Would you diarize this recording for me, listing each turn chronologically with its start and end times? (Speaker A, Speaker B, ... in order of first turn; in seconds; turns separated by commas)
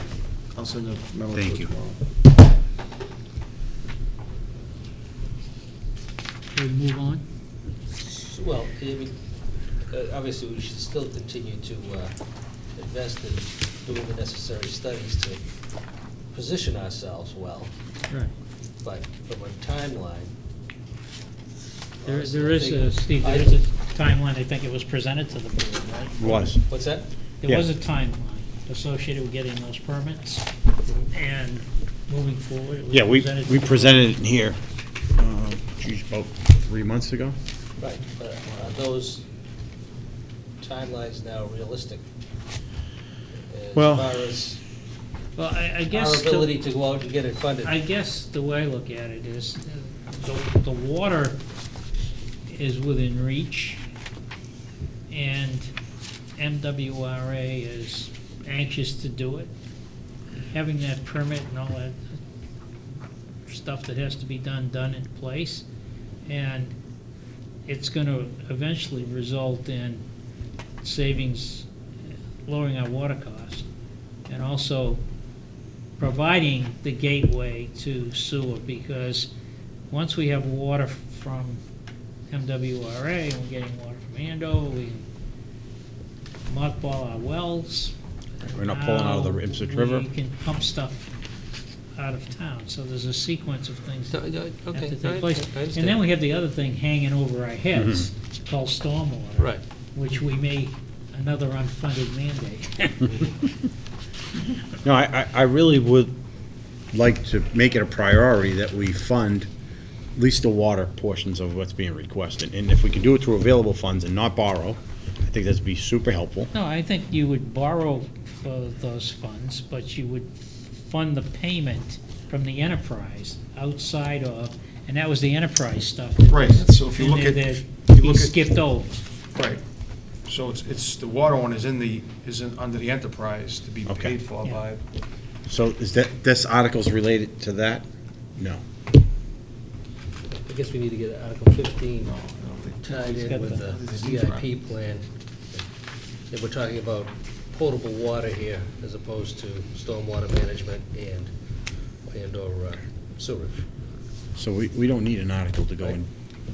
Speaker A: 0.5-2.0, Speaker B: 1.3-1.7, Speaker C: 6.5-7.2, Speaker D: 8.0-9.2, Speaker D: 9.7-12.1, Speaker D: 12.7-15.4, Speaker D: 16.3-17.7, Speaker D: 18.8-20.3, Speaker D: 22.0-23.6, Speaker C: 22.1-26.4, Speaker B: 26.2-26.8, Speaker D: 26.5-27.0, Speaker C: 27.4-30.4, Speaker C: 31.1-34.1, Speaker B: 32.9-34.6, Speaker B: 35.1-37.4, Speaker D: 37.8-39.2, Speaker D: 40.6-42.0, Speaker D: 43.5-44.6, Speaker B: 43.7-44.1, Speaker C: 45.4-46.6, Speaker D: 45.9-47.8, Speaker C: 47.6-51.4, Speaker C: 52.5-53.8, Speaker C: 55.1-55.7, Speaker C: 56.4-59.5, Speaker C: 60.5-62.0, Speaker C: 63.4-65.6, Speaker C: 66.2-66.7, Speaker C: 67.7-70.0, Speaker C: 70.8-71.7, Speaker C: 72.5-73.7, Speaker C: 74.3-75.0, Speaker C: 76.0-79.3, Speaker C: 79.9-81.6, Speaker C: 82.3-85.0, Speaker C: 86.5-91.1, Speaker B: 88.4-90.1, Speaker C: 91.9-103.5, Speaker D: 94.1-96.0, Speaker B: 104.8-106.1, Speaker B: 106.9-109.5, Speaker B: 110.1-116.5, Speaker C: 116.5-129.0, Speaker A: 126.3-128.4, Speaker A: 129.3-129.6, Speaker A: 130.2-134.8, Speaker B: 133.9-134.2, Speaker B: 135.5-137.8, Speaker D: 140.4-142.1, Speaker A: 142.0-144.6, Speaker D: 142.8-145.6, Speaker C: 143.2-143.6, Speaker D: 146.3-151.3, Speaker D: 152.1-153.6, Speaker B: 154.3-156.1